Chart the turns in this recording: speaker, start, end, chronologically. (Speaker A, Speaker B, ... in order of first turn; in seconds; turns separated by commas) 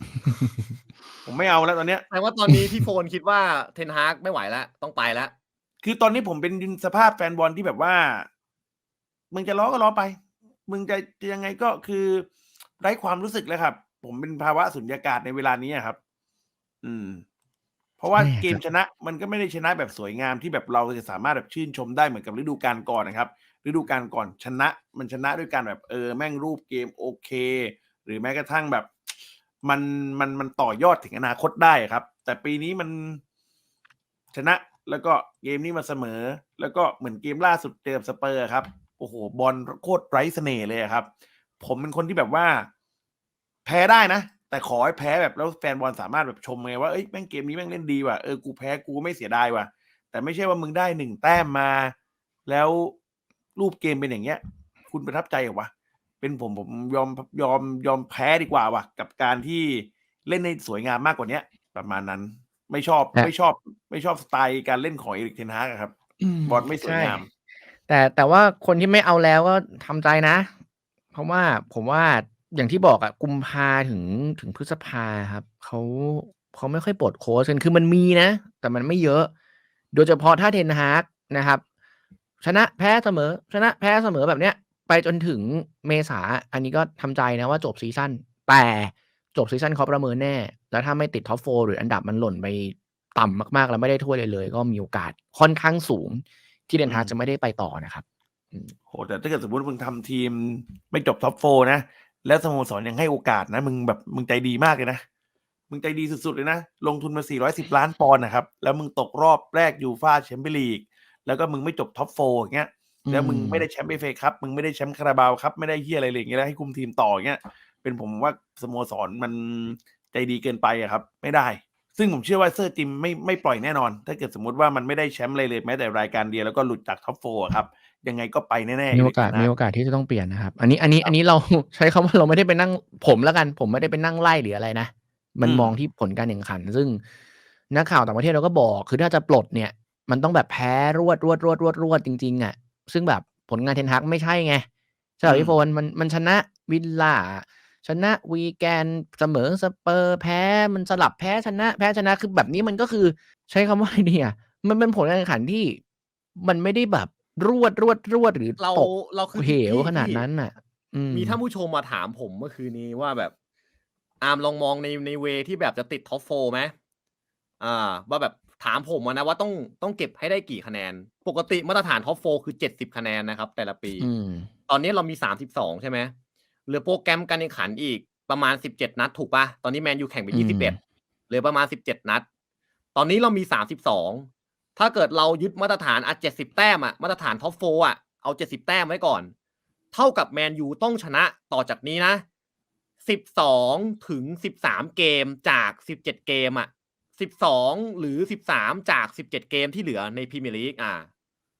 Speaker A: 1.2-2.0, Speaker B: 2.1-5.3, Speaker A: 5.8-8.3, Speaker A: 9.3-12.3, Speaker A: 12.8-16.0, Speaker A: 16.8-17.2, Speaker A: 18.0-28.9, Speaker C: 18.1-18.6, Speaker A: 29.6-33.2, Speaker A: 34.3-41.1, Speaker A: 41.6-42.7, Speaker A: 43.6-51.9, Speaker A: 52.5-53.0, Speaker A: 53.5-55.7, Speaker A: 56.2-65.9, Speaker C: 66.2-67.2, Speaker A: 66.4-67.3, Speaker C: 67.9-70.5, Speaker C: 71.1-79.3, Speaker C: 79.9-81.6, Speaker C: 82.4-98.7, Speaker A: 96.8-97.1, Speaker A: 98.9-105.0, Speaker A: 105.7-129.5, Speaker C: 113.0-113.7, Speaker C: 128.9-137.0, Speaker A: 135.4-135.8, Speaker C: 137.7-144.7, Speaker C: 145.2-155.8, Speaker A: 145.2-145.6, Speaker C: 156.4-161.4, Speaker B: 158.6-160.2, Speaker B: 161.1-163.3, Speaker B: 164.2-166.7, Speaker B: 167.6-174.1, Speaker C: 174.0-174.5, Speaker B: 174.7-176.1, Speaker B: 176.7-180.8, Speaker C: 180.3-180.8, Speaker B: 181.3-182.2, Speaker B: 182.9-189.3, Speaker B: 189.9-192.2, Speaker B: 193.0-201.1